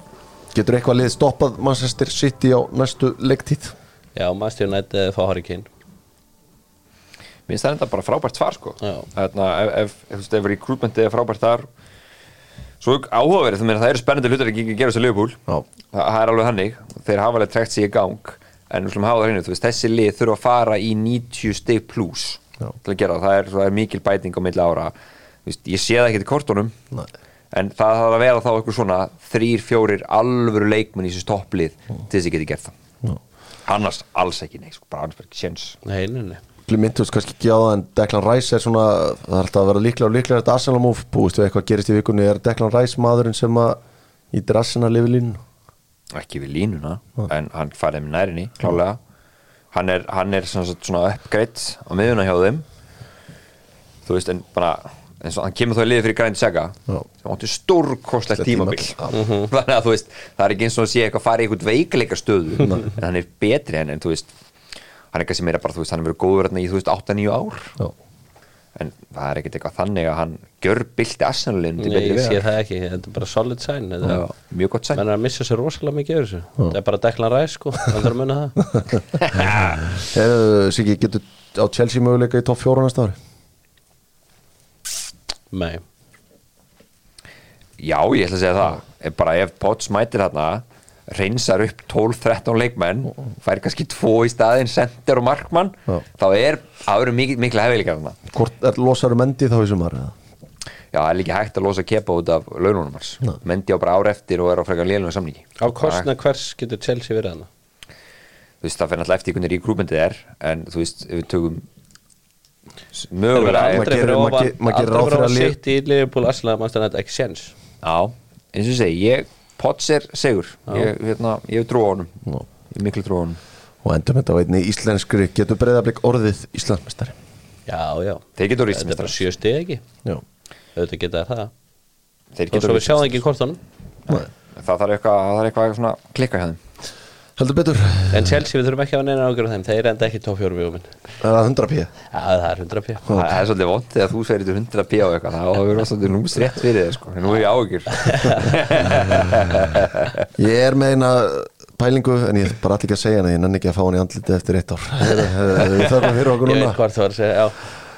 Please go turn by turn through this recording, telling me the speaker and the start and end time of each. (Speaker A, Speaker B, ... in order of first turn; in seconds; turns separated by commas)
Speaker A: 0.5-3.7, Speaker B: 4.2-5.7, Speaker C: 7.5-11.7, Speaker C: 12.8-15.4, Speaker C: 15.9-24.9, Speaker C: 25.4-26.8, Speaker C: 27.5-32.7, Speaker C: 33.7-35.8, Speaker B: 35.9-36.4, Speaker A: 36.7-43.8, Speaker A: 44.3-45.4, Speaker C: 46.1-49.0, Speaker C: 49.7-52.6, Speaker C: 54.1-64.3, Speaker A: 58.4-59.1, Speaker B: 59.1-59.5, Speaker C: 65.1-67.8, Speaker C: 68.8-72.5, Speaker B: 71.8-74.2, Speaker C: 74.0-75.0, Speaker B: 74.9-78.6, Speaker C: 79.2-79.8, Speaker A: 79.9-83.2, Speaker B: 85.5-85.8, Speaker C: 87.8-98.2, Speaker A: 98.3-100.2, Speaker C: 100.9-106.1, Speaker B: 105.6-107.5, Speaker C: 108.6-111.7, Speaker C: 113.0-114.0, Speaker B: 113.3-117.5, Speaker A: 113.4-115.6, Speaker C: 117.8-122.2, Speaker C: 122.7-123.4, Speaker A: 123.8-127.2, Speaker B: 127.7-129.8, Speaker C: 128.4-129.2, Speaker B: 130.8-131.5, Speaker C: 132.3-133.2, Speaker B: 132.5-133.6, Speaker C: 134.1-136.6, Speaker A: 137.4-138.4, Speaker B: 138.1-140.9, Speaker A: 141.2-141.9, Speaker B: 142.1-143.1, Speaker C: 143.1-150.3, Speaker B: 148.0-148.5, Speaker A: 148.9-149.4, Speaker A: 150.4-156.8, Speaker B: 156.4-157.6